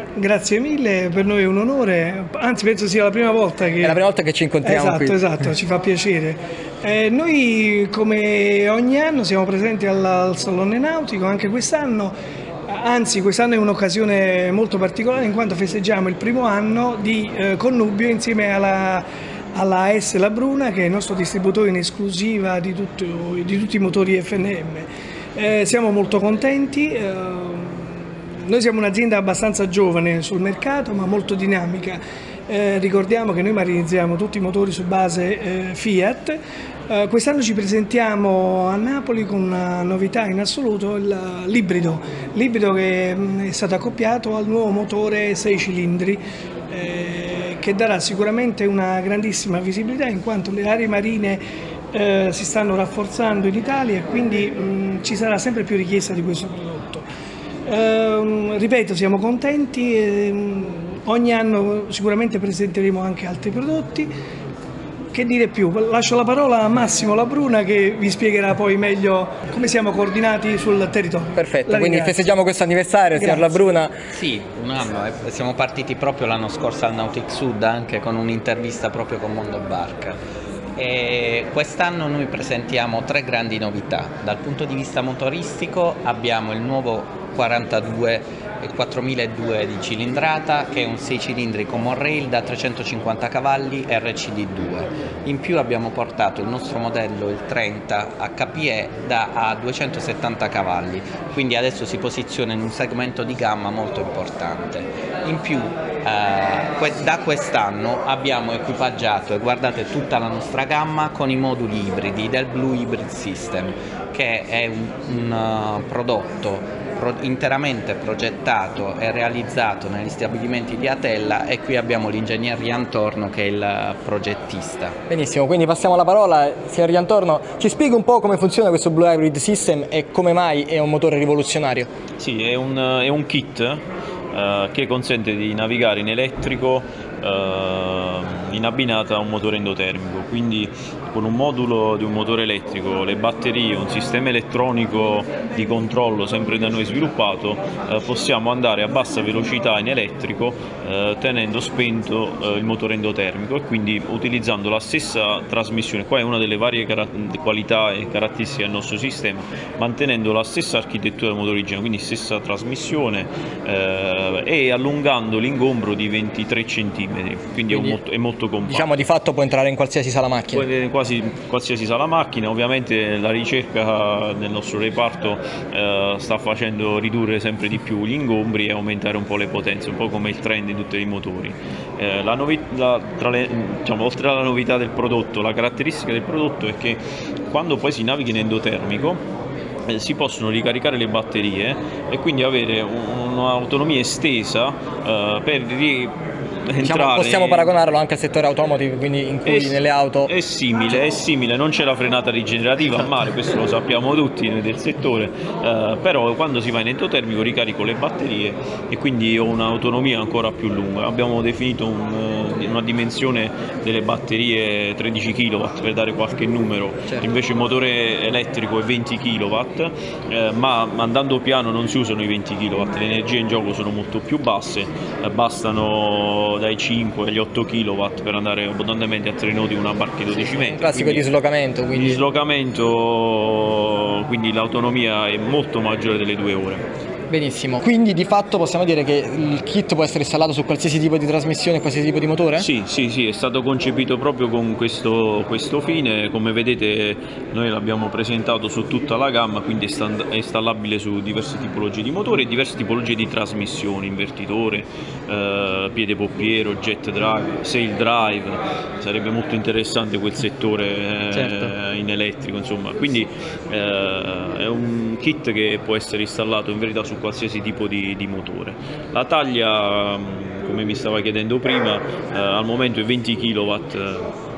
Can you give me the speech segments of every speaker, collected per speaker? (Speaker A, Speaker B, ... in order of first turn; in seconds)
Speaker A: 0.2-4.0, 4.6-12.1, 12.7-51.4, 51.9-57.0, 57.6-64.1, 65.1-72.2, 73.2-73.6
Speaker B: 3.8-5.2, 71.3-73.9, 125.1-131.9, 167.7-167.9, 168.7-170.7, 196.8-200.3, 230.3-232.2, 237.3-242.7
Speaker C: 74.1-80.2, 80.8-125.0
Speaker D: 132.2-168.9, 170.5-189.2, 189.9-197.7, 199.4-231.3, 231.9-236.8, 242.6-274.3